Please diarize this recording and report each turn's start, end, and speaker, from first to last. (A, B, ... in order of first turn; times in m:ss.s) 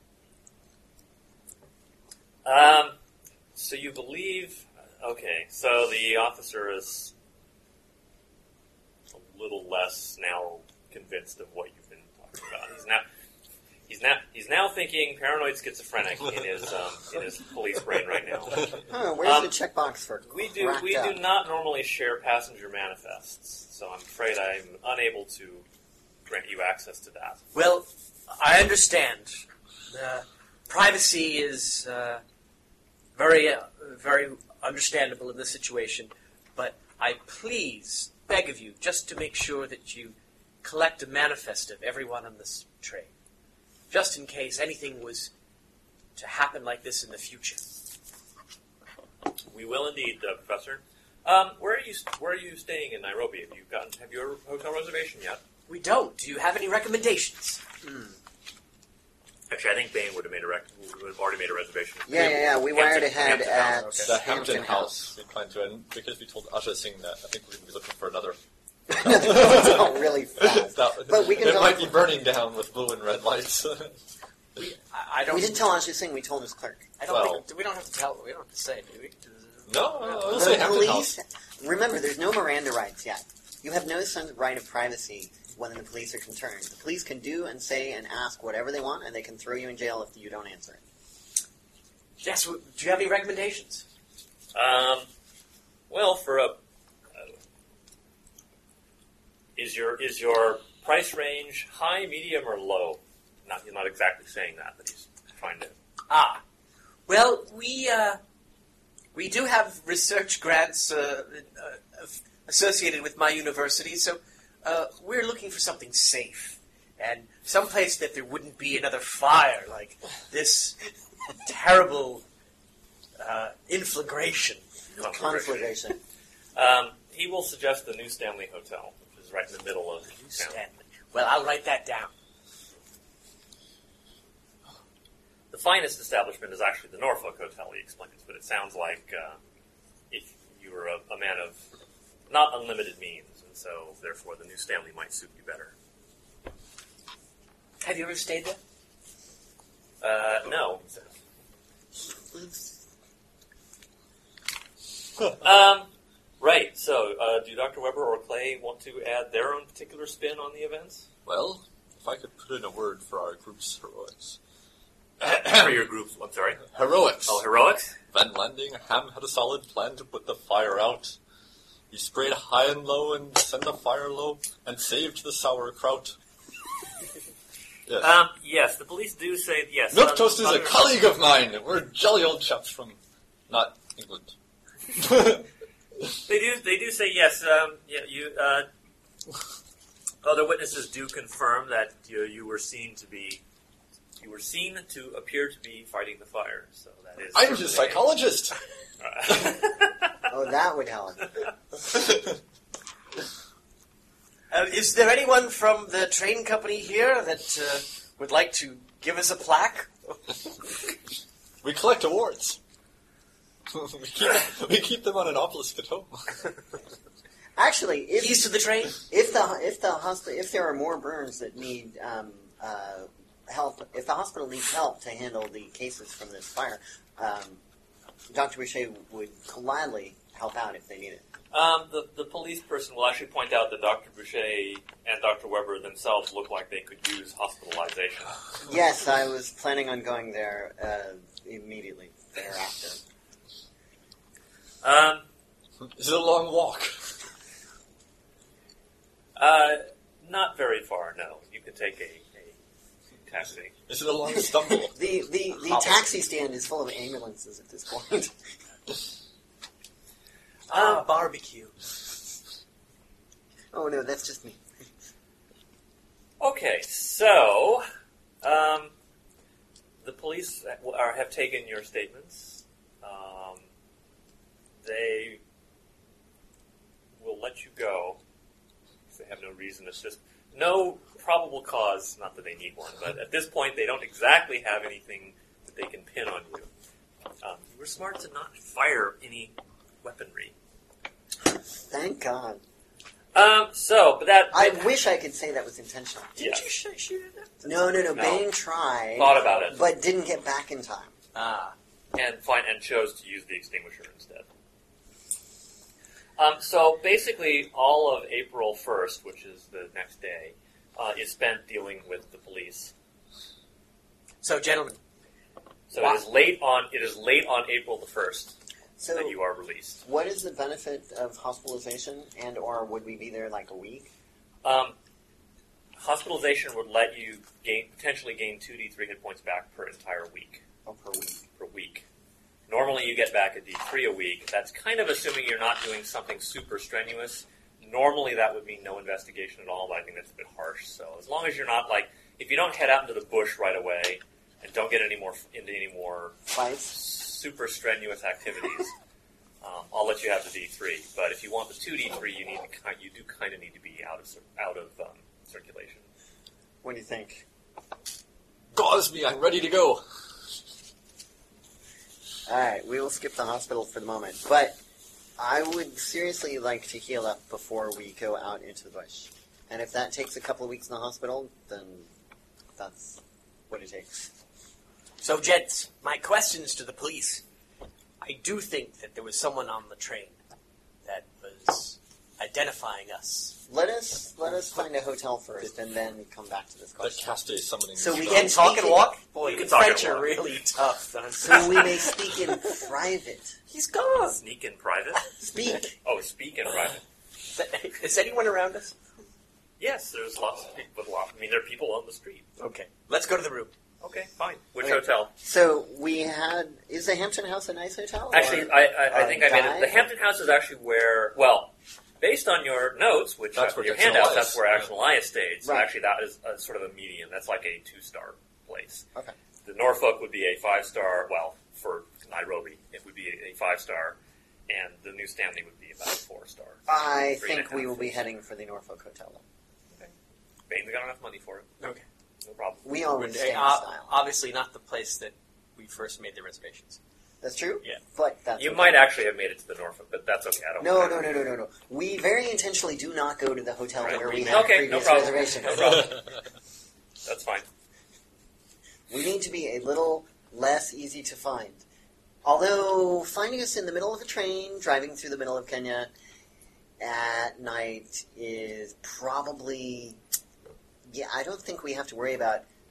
0:02.4-0:03.0 A
0:03.5-0:07.1 A
0:09.1-0:13.0 A
0:13.9-0:19.5 A
0:18.8-0:21.2 B
0:20.3-0:25.6 A
0:26.3-0:27.4 A
0:27.5-0:32.2 C
0:33.1-0:43.1 C
0:43.9-0:45.3 C
0:46.2-0:47.7 C
0:49.5-0:55.4 A
0:55.7-0:57.6 C
0:57.8-0:58.1 B
0:59.5-1:04.1 A
1:02.1-1:05.1 B
1:04.0-1:08.4 D
1:08.9-1:12.0 B
1:08.9-1:14.0 D
1:14.6-1:15.7 C
1:15.3-1:16.9 B
1:17.0-1:20.6 C
1:17.1-1:17.4 D
1:19.7-1:21.1 D
1:20.3-1:30.8 B
1:32.2-1:33.8 C
1:34.5-1:35.1 A
1:35.9-1:36.6 A
1:39.6-1:45.7 A
1:46.1-1:46.4 C
1:47.1-1:48.2 C
1:49.1-2:00.9 C
2:01.4-2:02.2 C
2:03.2-2:04.6 C
2:05.0-2:06.0 B
2:05.0-2:05.7 A
2:06.5-2:10.6 A
2:10.1-2:12.1 C
2:15.5-2:19.4 A
2:20.1-2:21.6 A
2:22.3-2:25.7 A
2:27.8-2:28.6 C
2:30.0-2:31.1 A
2:32.2-2:32.8 B
2:35.4-2:35.9 A
2:36.4-2:41.0 A
2:41.2-2:44.4 D
2:45.2-2:46.6 A
2:45.2-2:45.7 D
2:46.7-2:47.4 D
2:47.2-2:48.0 A
2:48.1-2:51.2 D
2:51.9-2:56.2 D
2:58.0-3:00.8 A
2:59.9-3:04.3 D
3:04.9-3:05.5 D
3:06.2-3:08.7 A
3:10.2-3:13.4 A
3:14.2-3:18.1 A
3:17.3-3:18.6 D
3:19.0-3:20.2 A
3:20.3-3:21.3 B
3:21.9-3:22.3 D
3:24.5-3:30.2 C
3:31.6-3:32.6 D
3:33.7-3:36.4 D
3:37.6-3:47.6 B
3:38.2-3:39.0 C
3:48.3-3:51.2 B
3:51.5-3:58.4 A
3:58.6-4:03.0 B
4:04.8-4:05.2 A
4:05.9-4:07.1 D
4:09.4-4:12.6 A
4:13.2-4:13.7 A
4:13.9-4:15.0 D
4:14.3-4:18.3 B
4:15.7-4:16.0 C
4:20.7-4:21.7 C
4:20.7-4:21.0 A
4:23.7-4:24.6 B
4:26.4-4:27.8 A
4:28.4-4:28.9 A
4:30.0-4:33.6 A
4:34.8-4:35.4 A
4:37.2-4:38.2 A
4:39.1-4:46.7 A
4:47.4-4:50.5 A
4:51.8-4:52.6 B
4:53.3-4:54.9 A
4:54.5-4:56.4 B
4:56.4-4:57.8 C
4:56.4-4:56.6 A
4:57.6-5:01.1 B
4:58.1-4:58.5 A
4:59.1-4:59.8 A
5:01.3-5:01.8 C
5:02.1-5:04.5 A
5:06.4-5:12.9 A
5:14.4-5:15.0 C
5:15.9-5:18.5 A
5:15.9-5:16.2 C
5:19.0-5:19.4 B
5:19.1-5:20.0 A
5:20.0-5:24.1 B
5:24.6-5:24.9 A
5:26.0-5:30.6 A
5:30.8-5:31.4 B
5:31.6-5:32.0 A
5:32.7-5:46.4 A
5:46.5-5:47.0 B
5:46.9-5:48.9 A
5:49.6-5:56.0 A
5:56.8-5:57.4 B
5:58.7-6:00.0 D
6:02.5-6:04.8 B
6:05.4-6:12.1 B
6:12.8-6:14.3 B
6:15.2-6:17.4 C
6:18.2-6:20.4 C
6:21.0-6:23.6 C
6:23.7-6:27.3 B
6:27.0-6:28.6 D
6:27.9-6:29.1 B
6:28.2-6:32.3 C
6:29.4-6:30.4 A
6:31.4-6:33.5 B
6:33.7-6:34.4 C
6:34.2-6:35.2 A
6:35.4-6:35.9 B
6:36.0-6:37.0 A
6:37.5-6:39.0 C
6:39.8-6:42.4 A
6:42.6-6:43.7 C
6:44.0-6:45.3 A
6:44.8-6:50.1 B
6:48.3-6:59.0 A
6:53.5-6:54.9 D
6:59.6-7:04.2 A
7:04.7-7:08.2 A
7:06.9-7:09.4 B
7:10.7-7:11.7 A
7:12.4-7:12.8 A
7:12.8-7:14.1 B
7:13.1-7:17.0 C
7:17.4-7:19.0 B
7:18.6-7:21.3 A
7:20.8-7:26.1 B
7:24.0-7:26.3 A
7:24.1-7:24.8 C
7:27.2-7:27.6 A
7:29.1-7:31.8 B
7:32.4-7:36.1 B
7:37.0-7:40.2 B
7:41.1-7:42.6 B